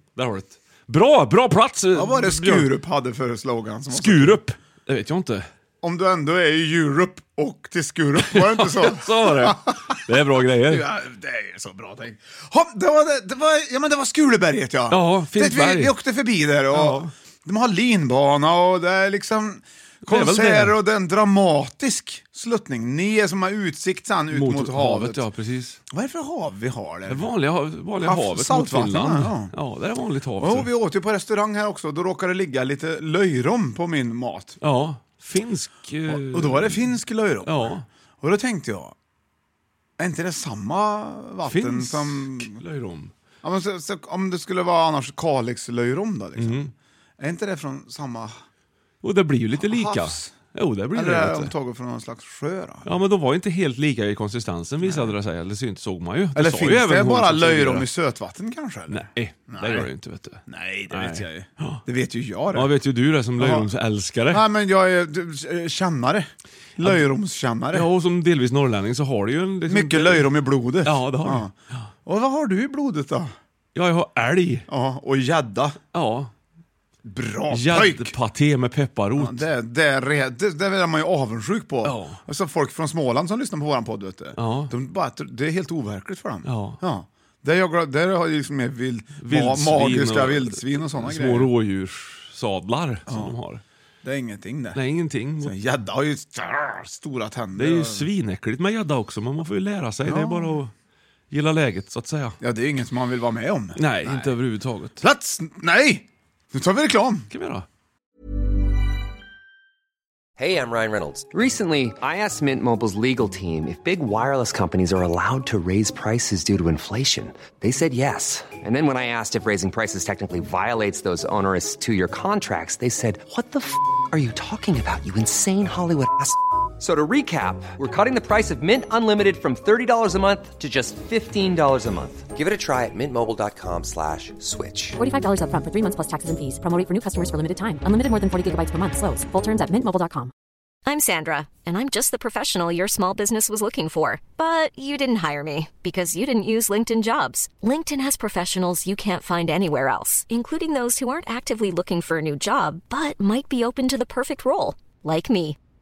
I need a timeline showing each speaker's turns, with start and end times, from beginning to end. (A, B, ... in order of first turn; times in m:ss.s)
0:00.2-0:02.7 A
0:01.9-0:04.4 B
0:03.9-0:05.4 A
0:05.8-0:10.0 B
0:08.3-0:10.9 A
0:10.6-0:25.2 B
0:14.9-0:15.9 A
0:16.7-0:17.1 A
0:20.0-0:20.8 A
0:24.3-0:25.8 A
0:25.9-0:27.3 B
0:27.1-0:30.7 A
0:28.0-0:29.5 B
0:30.4-0:34.6 B
0:34.6-0:36.9 A
0:36.1-0:38.9 B
0:37.4-0:37.8 A
0:40.0-0:42.6 B
0:41.4-0:43.1 A
0:43.4-0:46.6 B
0:46.4-0:46.7 A
0:47.2-0:48.4 B
0:49.0-0:51.5 A
0:49.6-0:50.3 B
0:50.9-0:52.9 B
0:52.8-0:57.9 A
0:54.8-0:55.1 B
0:56.3-0:59.9 B
0:58.9-1:01.8 A
1:00.5-1:02.7 B
1:02.5-1:04.4 A
1:03.4-1:03.7 B
1:04.3-1:07.9 B
1:06.8-1:07.0 A
1:07.7-1:11.8 A
1:09.7-1:11.5 B
1:12.0-1:13.3 B
1:13.7-1:14.6 A
1:14.7-1:15.8 B
1:15.9-1:16.3 A
1:17.0-1:18.1 B
1:17.5-1:19.4 A
1:19.2-1:31.5 B
1:21.8-1:22.2 A
1:24.4-1:24.7 A
1:26.4-1:26.8 A
1:29.2-1:33.6 A
1:33.1-1:33.3 B
1:34.0-1:34.8 B
1:34.7-1:35.5 A
1:35.4-1:38.0 B
1:37.6-1:40.7 A
1:40.0-1:40.6 B
1:41.3-1:42.4 A
1:42.4-1:44.3 B
1:43.8-1:45.0 A
1:45.0-1:47.3 B
1:47.3-1:47.6 A
1:50.4-2:15.0 C
2:15.0-2:20.3 D
2:20.8-2:35.6 E